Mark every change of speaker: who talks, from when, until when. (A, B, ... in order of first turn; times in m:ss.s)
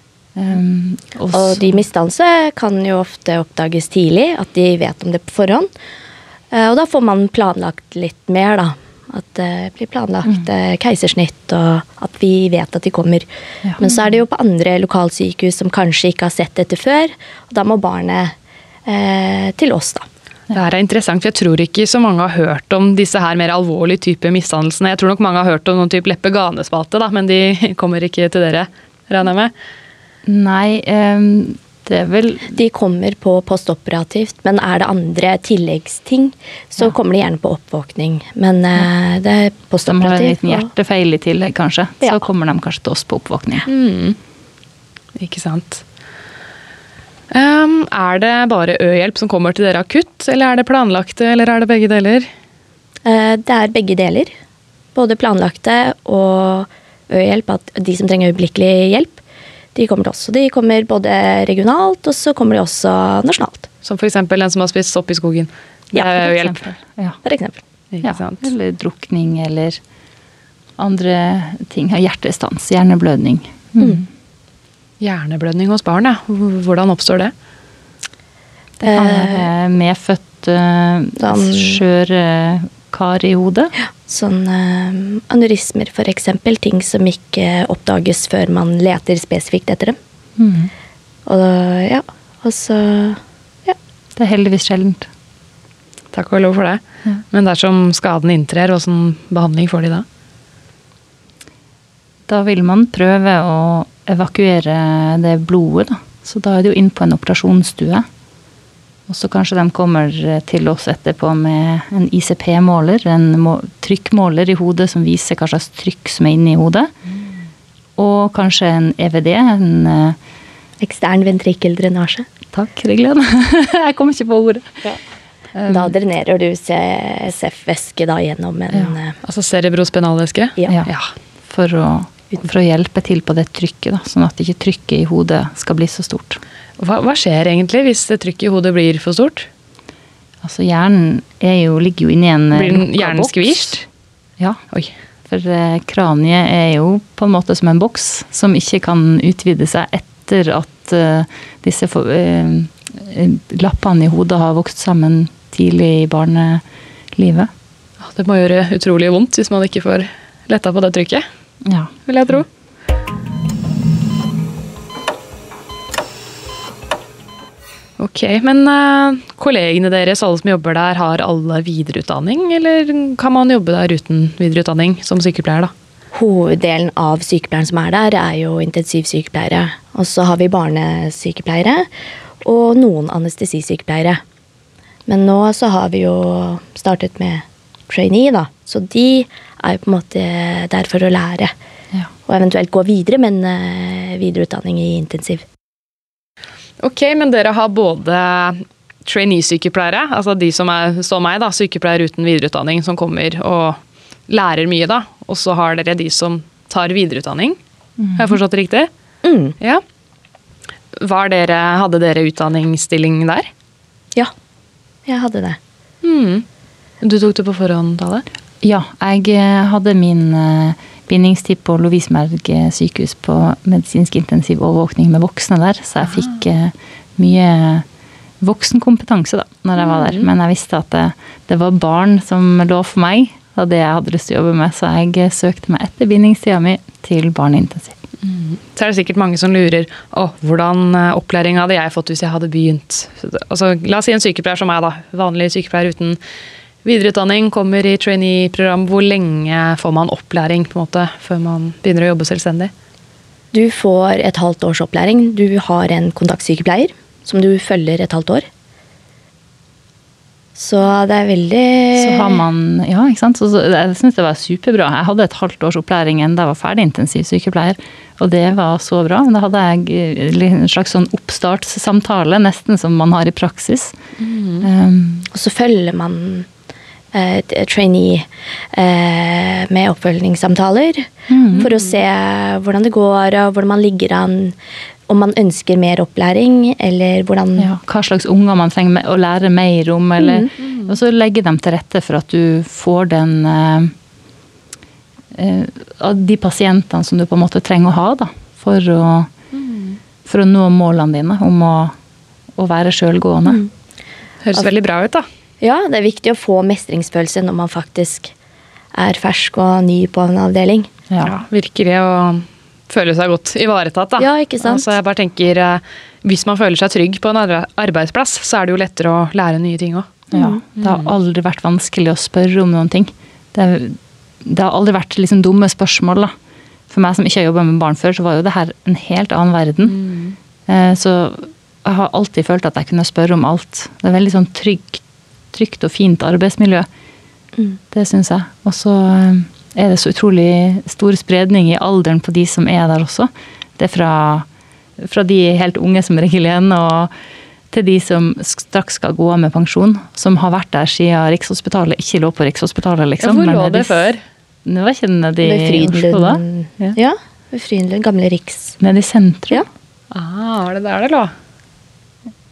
0:00.3-0:01.8 A
0:01.3-0:05.7 B
0:06.5-0:13.3 B
0:13.8-0:18.3 B
0:18.8-0:20.0 B
0:20.5-0:29.5 C
0:30.2-0:32.5 A
0:32.5-0:40.7 B
0:39.8-0:43.7 A
0:43.7-0:44.2 C
0:45.2-0:45.8 C
0:47.3-0:52.3 C
0:53.0-0:54.3 B
0:54.9-0:59.2 B
0:59.7-1:03.7 B
1:03.8-1:06.7 C
1:05.9-1:07.2 A
1:07.2-1:07.6 B
1:07.9-1:08.4 C
1:08.0-1:09.8 A
1:10.8-1:14.0 A
1:15.0-1:17.3 C
1:18.8-1:19.5 B
1:18.8-1:23.7 A
1:21.2-1:21.8 B
1:24.1-1:30.0 B
1:30.4-1:30.7 A
1:31.2-1:33.8 B
1:34.1-1:35.1 A
1:36.1-1:40.0 C
1:42.3-1:48.0 A
1:49.1-1:56.9 A
1:58.0-2:00.2 A
2:00.8-2:02.2 B
2:02.5-2:04.8 A
2:05.5-2:05.9 A
2:05.7-2:09.2 B
2:09.2-2:11.1 C
2:11.4-2:16.4 A
2:16.8-2:19.5 C
2:20.4-2:23.8 A
2:22.5-2:23.8 C
2:25.3-2:36.6 A
2:37.1-2:37.5 A
2:38.0-2:41.2 C
2:41.6-2:41.9 A
2:42.1-2:42.4 C
2:48.0-2:55.7 C
2:56.1-3:01.9 B
3:02.4-3:04.2 B
3:05.1-3:11.5 B
3:12.2-3:15.4 B
3:16.8-3:27.6 C
3:28.0-3:28.4 A
3:28.1-3:28.9 C
3:29.2-3:29.6 B
3:31.0-3:33.5 C
3:35.1-3:35.6 B
3:36.0-3:36.4 C
3:37.0-3:38.2 C
3:38.6-3:47.8 A
3:48.4-3:58.0 A
3:49.8-3:50.3 C
3:58.2-4:06.2 C
4:06.8-4:12.7 C
4:13.5-4:18.4 B
4:20.6-4:22.4 B
4:22.0-4:34.0 A
4:34.2-4:34.7 C
4:34.6-4:35.3 A
4:35.3-4:36.5 B
4:37.1-4:44.5 B
4:41.3-4:41.7 A
4:41.5-4:42.0 C
4:45.1-4:47.7 B
4:47.6-4:53.9 A
4:50.2-4:50.5 B
4:50.6-4:50.9 C
4:55.3-4:59.3 A
4:59.5-5:00.0 C
5:00.2-5:01.9 A
5:02.6-5:03.6 A
5:04.4-5:05.2 C
5:05.6-5:08.3 B
5:08.9-5:10.9 B
5:11.1-5:11.3 A
5:11.2-5:21.1 C
5:14.2-5:14.9 B
5:20.3-5:26.3 A
5:20.3-5:20.6 B
5:26.9-5:30.0 A
5:29.8-5:30.4 C
5:30.7-5:36.9 A
5:37.9-5:44.4 A
5:45.0-5:47.1 A
5:47.7-5:54.1 A
5:53.2-5:54.2 C
5:54.6-5:57.0 A
5:55.4-5:58.8 B
5:58.8-5:59.6 A
6:00.1-6:01.3 C